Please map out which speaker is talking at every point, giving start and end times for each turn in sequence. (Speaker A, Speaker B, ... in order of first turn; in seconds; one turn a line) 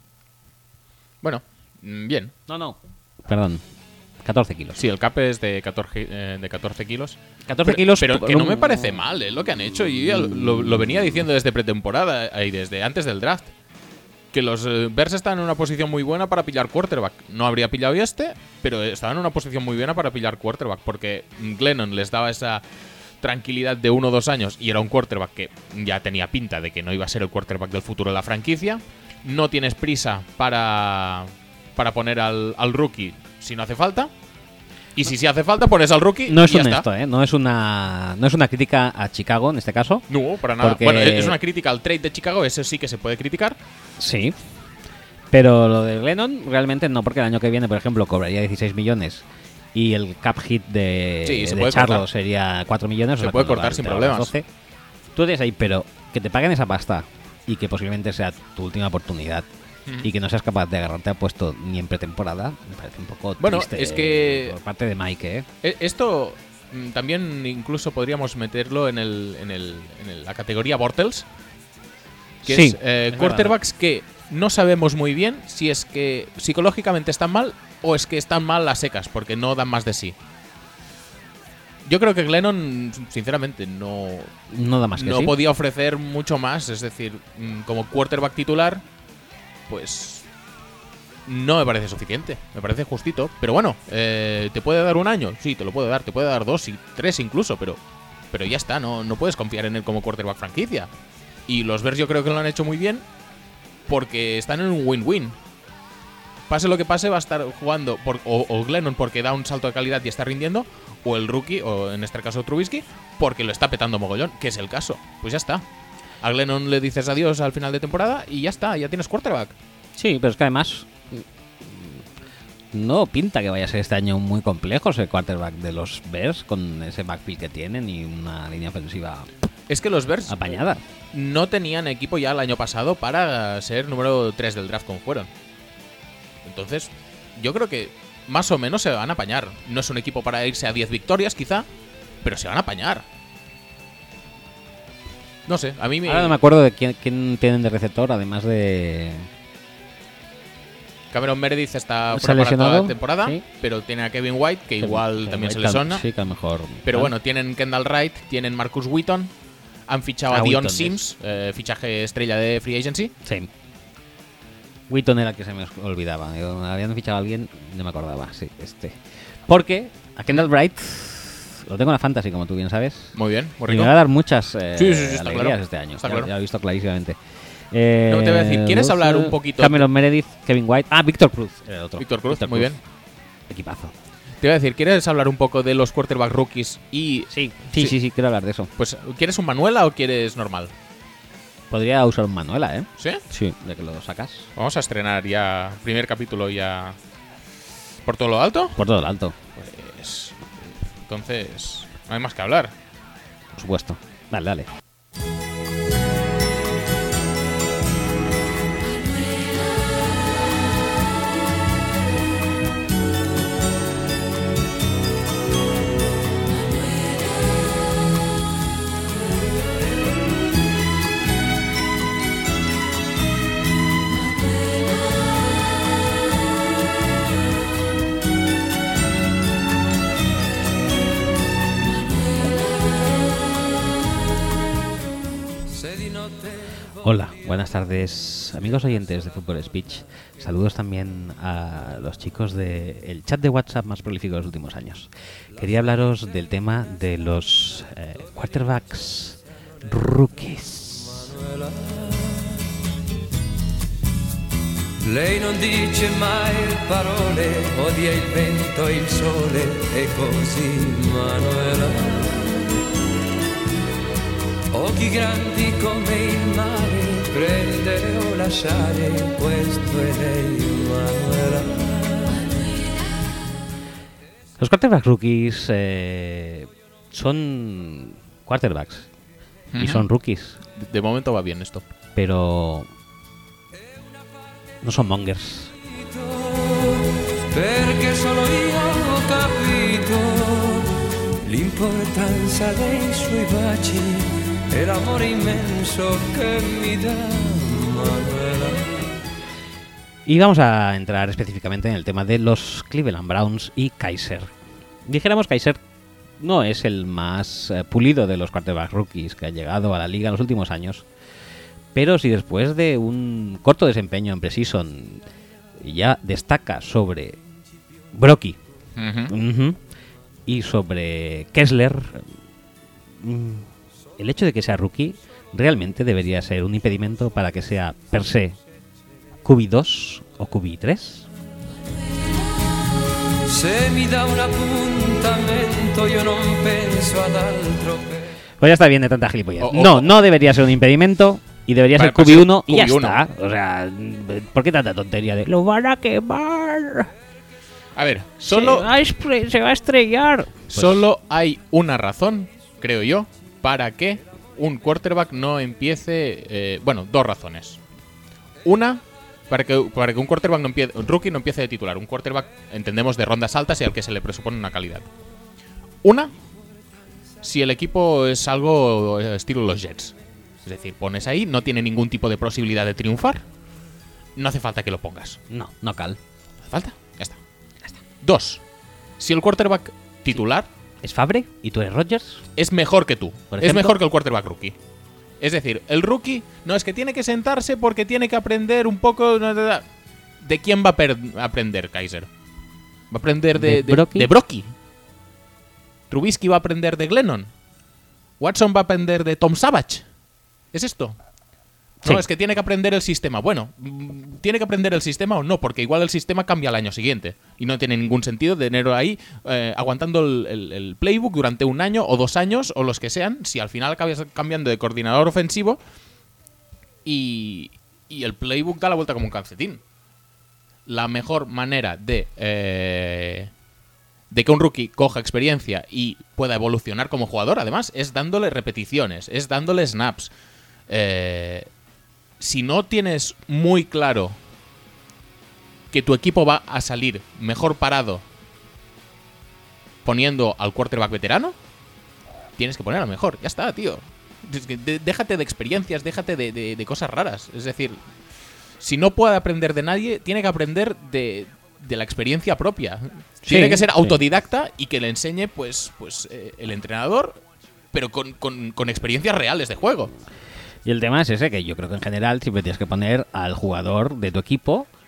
Speaker A: 1.2-2.3
Speaker B: 2.5-3.6
Speaker B: 4.2-4.8
Speaker A: 4.8-13.5
Speaker B: 7.5-9.0
Speaker A: 14.3-22.6
Speaker A: 23.2-34.1
Speaker A: 35.0-36.9
Speaker B: 36.3-40.0
Speaker A: 40.1-43.6
Speaker B: 40.6-41.4
Speaker B: 44.0-44.4
Speaker B: 45.3-54.5
Speaker A: 51.2-52.1
Speaker A: 53.2-54.3
Speaker B: 55.1-59.5
Speaker B: 60.0-65.5
Speaker A: 63.4-64.5
Speaker A: 65.6-71.3
Speaker A: 72.4-80.2
Speaker B: 72.5-73.5
Speaker A: 81.8-84.3
Speaker B: 84.5-85.4
Speaker A: 85.0-88.8
Speaker A: 89.7-90.2
Speaker A: 91.2-97.8
Speaker A: 98.3-100.9
Speaker A: 101.5-103.0
Speaker A: 103.9-105.4
Speaker A: 106.5-115.6
Speaker A: 116.2-119.5
Speaker B: 120.0-122.0
Speaker B: 122.7-129.3
Speaker A: 129.7-130.4
Speaker B: 130.3-130.8
Speaker A: 131.1-135.3
Speaker A: 136.4-141.7
Speaker A: 142.2-143.1
Speaker A: 145.5-146.4
Speaker B: 146.0-149.3
Speaker A: 151.1-156.1
Speaker B: 152.1-153.4
Speaker B: 154.8-157.1
Speaker A: 156.8-159.3
Speaker A: 159.9-163.1
Speaker B: 160.3-161.0
Speaker B: 163.2-163.5
Speaker B: 164.9-173.1
Speaker A: 173.1-173.9
Speaker B: 173.7-177.2
Speaker A: 174.8-176.3
Speaker B: 177.7-182.8
Speaker A: 178.1-179.9
Speaker A: 182.0-182.8
Speaker B: 183.5-183.9
Speaker A: 184.4-187.9
Speaker B: 187.3-188.7
Speaker A: 188.8-190.7
Speaker B: 191.7-194.5
Speaker A: 193.0-193.2
Speaker A: 194.6-197.0
Speaker A: 198.0-198.8
Speaker B: 198.8-199.4
Speaker A: 199.6-202.7
Speaker B: 203.5-204.7
Speaker C: 235.7-236.6
Speaker B: 237.0-251.3
Speaker C: 251.2-252.6
Speaker C: 255.0-262.9
Speaker C: 264.7-272.6
Speaker B: 274.6-279.1
Speaker A: 279.7-280.1
Speaker B: 279.8-280.6
Speaker A: 280.7-281.8
Speaker B: 282.1-282.9
Speaker B: 284.8-285.7
Speaker C: 286.0-299.1
Speaker B: 300.2-304.5
Speaker B: 305.1-305.8
Speaker B: 306.4-311.0
Speaker B: 311.9-315.2
Speaker B: 315.8-317.4
Speaker B: 318.1-318.6
Speaker A: 318.9-319.3
Speaker B: 319.3-319.8
Speaker B: 320.5-322.2
Speaker B: 323.2-328.6
Speaker B: 329.4-331.3
Speaker C: 333.4-338.3
Speaker B: 338.6-347.1
Speaker A: 339.6-340.1
Speaker A: 341.9-343.2
Speaker A: 347.9-348.9
Speaker B: 348.5-351.0
Speaker A: 350.7-357.8
Speaker A: 358.6-365.1
Speaker A: 366.0-366.3
Speaker A: 367.4-373.4
Speaker A: 374.4-375.4
Speaker B: 375.5-376.2
Speaker A: 376.6-377.4
Speaker A: 378.2-378.6
Speaker A: 379.2-380.7
Speaker B: 381.0-382.4
Speaker A: 382.6-384.8
Speaker B: 383.5-383.9
Speaker A: 385.4-389.9
Speaker A: 390.4-392.3
Speaker A: 393.1-394.7
Speaker B: 393.6-394.3
Speaker A: 396.1-397.5
Speaker A: 398.4-400.1
Speaker A: 400.7-401.2
Speaker A: 402.0-415.8
Speaker A: 417.0-419.8
Speaker A: 420.9-423.5
Speaker A: 424.3-430.3
Speaker A: 430.9-431.7
Speaker A: 432.4-434.4
Speaker A: 435.9-438.2
Speaker A: 440.0-441.5
Speaker A: 442.6-448.0
Speaker A: 448.8-457.4
Speaker B: 453.4-454.2
Speaker A: 457.9-460.1
Speaker B: 460.9-464.9